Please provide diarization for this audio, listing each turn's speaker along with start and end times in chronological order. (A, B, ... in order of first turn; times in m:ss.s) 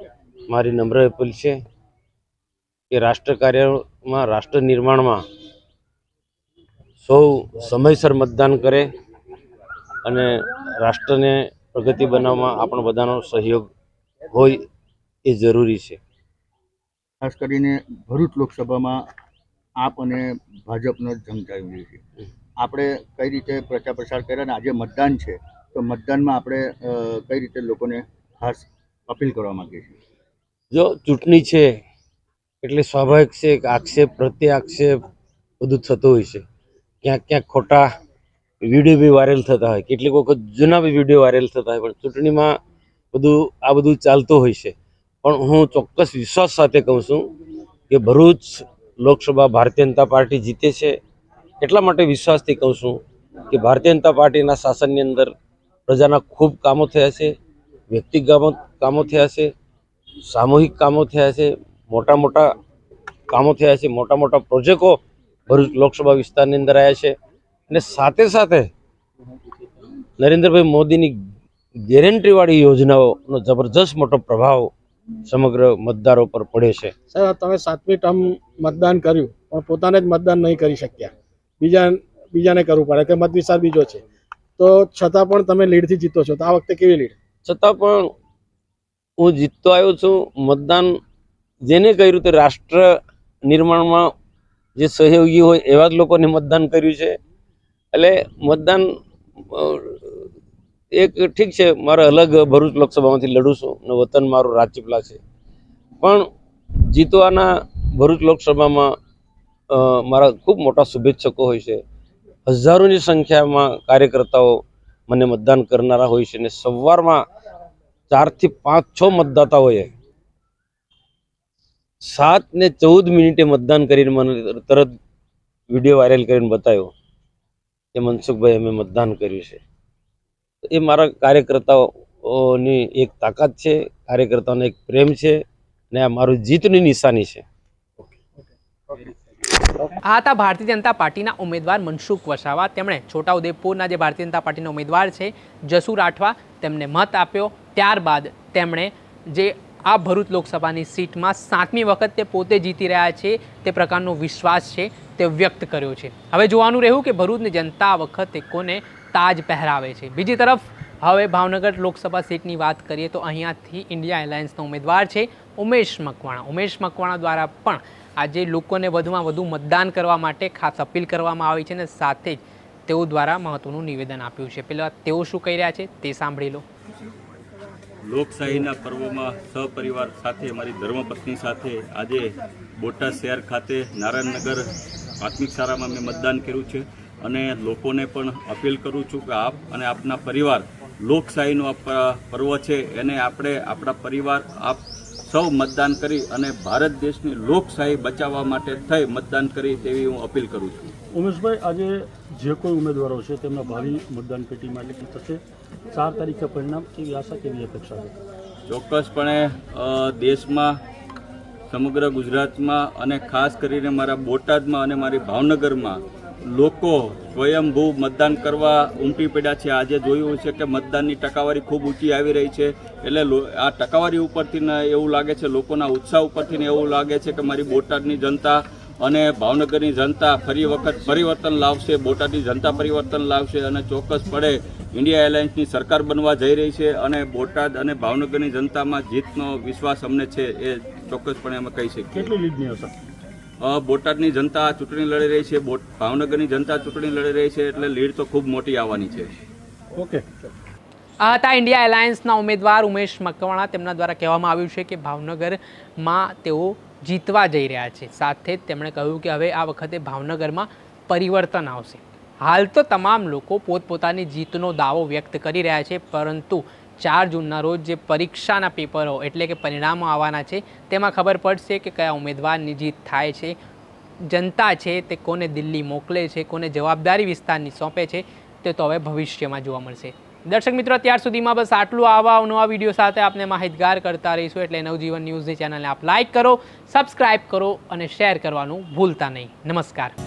0:00.5-0:01.6 A
0:02.9-0:05.2 A
0:07.0-0:08.9 A
0:10.0-0:13.7 A
0:14.3-0:14.6 A
0:15.2-0:16.0 A
0:17.2-0:19.0 B
0:19.8-0:22.0 B
0:22.6-0:30.0 B
0:30.7-0:31.8 A
0:32.6-0:35.0 A
0:35.6-0:36.4 A
0:37.0-0:37.9 A
0:38.6-0:42.6 A
0:43.1-0:47.3 A
0:47.9-0:51.0 A
0:51.6-0:55.3 A
0:55.9-0:57.3 A
0:57.9-0:59.5 A
1:00.3-1:02.5 A
1:03.3-1:07.1 A
1:07.7-1:08.7 A
1:10.2-1:11.2 A
1:11.9-1:14.7 A
1:15.3-1:16.9 A
1:17.1-1:24.0 C
1:24.6-1:27.1 C
1:27.4-1:28.1 A
1:29.2-1:31.0 A
1:31.7-1:33.0 A
1:33.5-1:34.1 A
1:34.8-1:37.2 A
1:37.9-1:38.9 A
1:39.4-1:40.3 A
1:40.9-1:45.2 A
1:46.0-1:46.3 A
1:46.9-1:48.9 A
1:49.7-1:51.8 A
1:52.5-1:57.2 A
1:58.1-1:59.9 A
2:02.0-2:04.9 A
2:05.7-2:06.9 A
2:07.9-2:09.6 A
2:10.7-2:15.4 A
2:15.9-2:17.4 A
2:20.0-2:56.6 D
2:58.1-3:02.3 E
3:02.8-3:04.6 E
3:05.2-3:20.9 E
3:21.1-3:25.4 F
3:25.9-3:28.1 F
3:28.7-3:30.8 E
3:31.7-4:02.3 E
4:02.1-4:02.9 F
4:03.6-4:09.3 E
4:09.9-4:10.3 F
4:11.2-4:33.6 D
4:34.2-4:50.2 D